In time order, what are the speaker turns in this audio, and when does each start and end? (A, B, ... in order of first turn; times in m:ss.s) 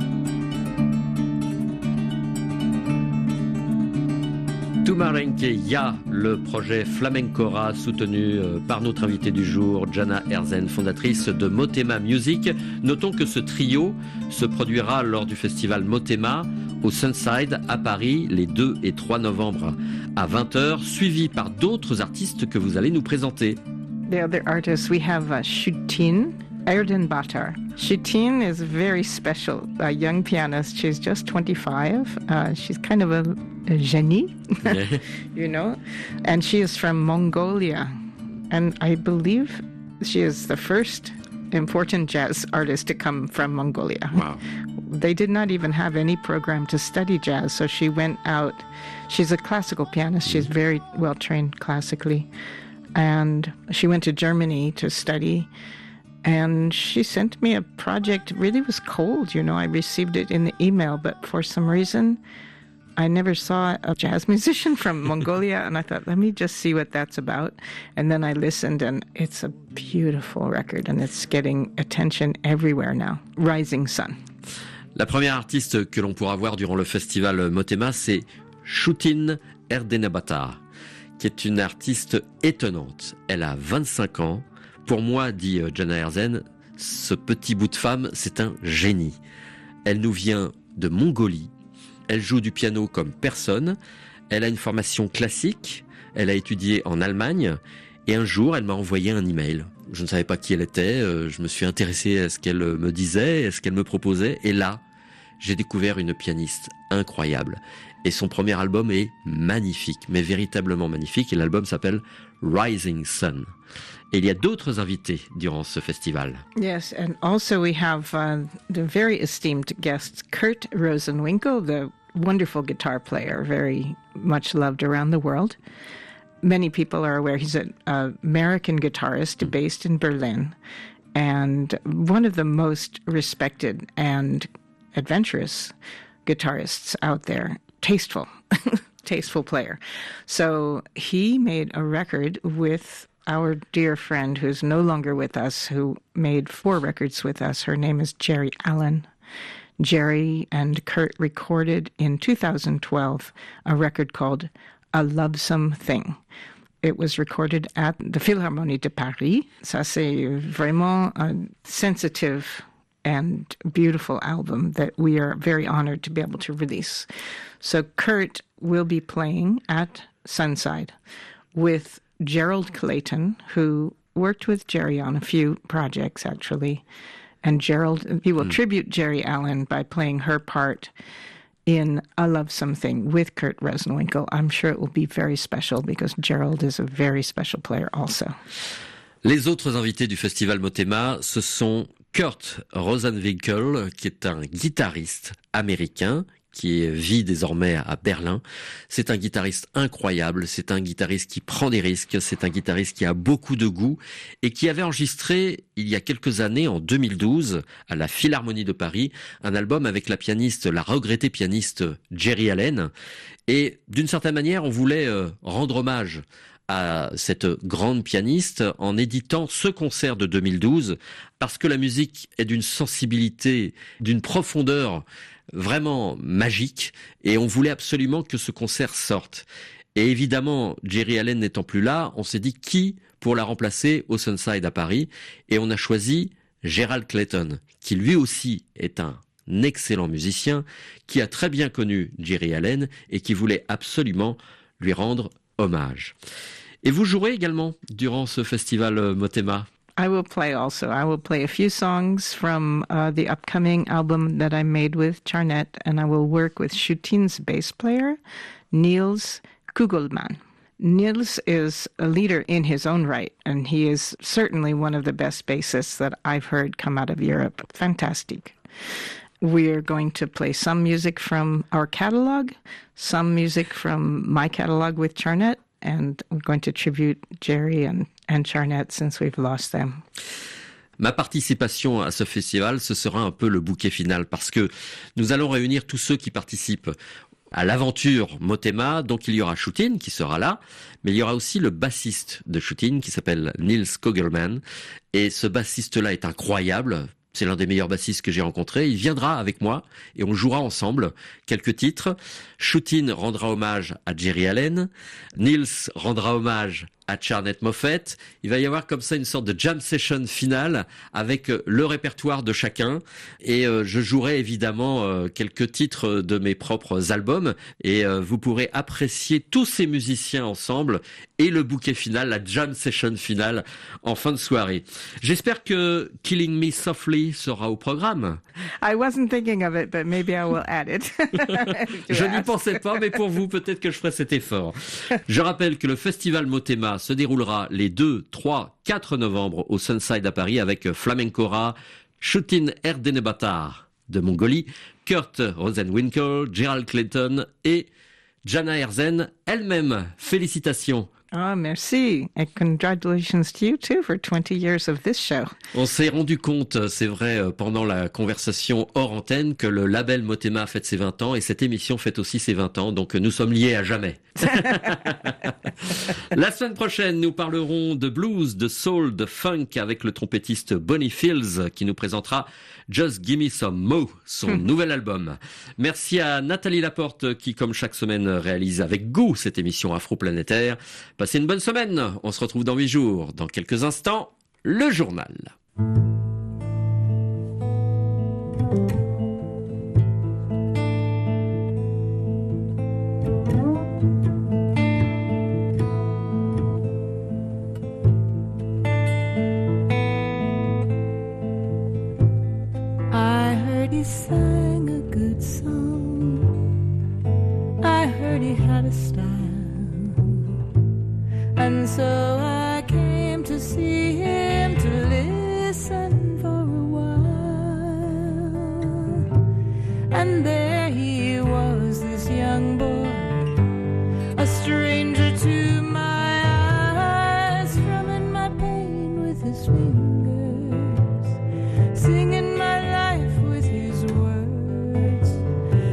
0:04.8-0:23.6 A
0:24.1-0:38.0 B
0:34.6-0:35.0 A
0:38.5-0:44.2 B
0:44.1-0:44.4 A
0:44.8-0:52.3 B
0:53.0-0:55.5 B
0:56.2-1:02.2 B
1:03.0-1:14.2 B
1:15.0-1:20.6 A
1:21.2-1:29.2 A
1:29.8-1:31.5 A
1:32.1-1:33.8 A
1:34.3-1:44.8 A
1:45.4-1:53.5 A
1:54.1-1:56.4 A
1:56.6-2:05.6 B
2:06.4-2:10.5 B
2:11.1-2:15.7 B
2:16.2-2:29.1 B
2:29.8-2:36.2 B
2:36.8-2:47.0 B
2:47.6-2:50.9 B
2:51.5-2:56.8 B
2:57.4-3:00.9 B
3:01.7-3:08.4 B
3:09.2-3:32.9 A
3:33.5-4:06.1 A
4:06.8-4:09.7 A
4:10.0-4:18.2 B
4:18.7-4:28.6 B
4:29.4-4:40.0 B
4:41.0-4:46.9 A
4:47.5-4:54.6 A
4:55.1-5:28.4 A
5:28.8-5:32.5 B
5:32.1-5:47.9 A
5:48.4-5:51.1 A
5:51.3-5:55.5 B
5:55.7-6:25.5 A
6:43.1-6:46.5 C
6:47.8-6:50.1 C
6:51.6-6:58.2 C
7:00.1-7:03.3 C
7:04.4-7:11.0 C
7:12.0-7:15.3 C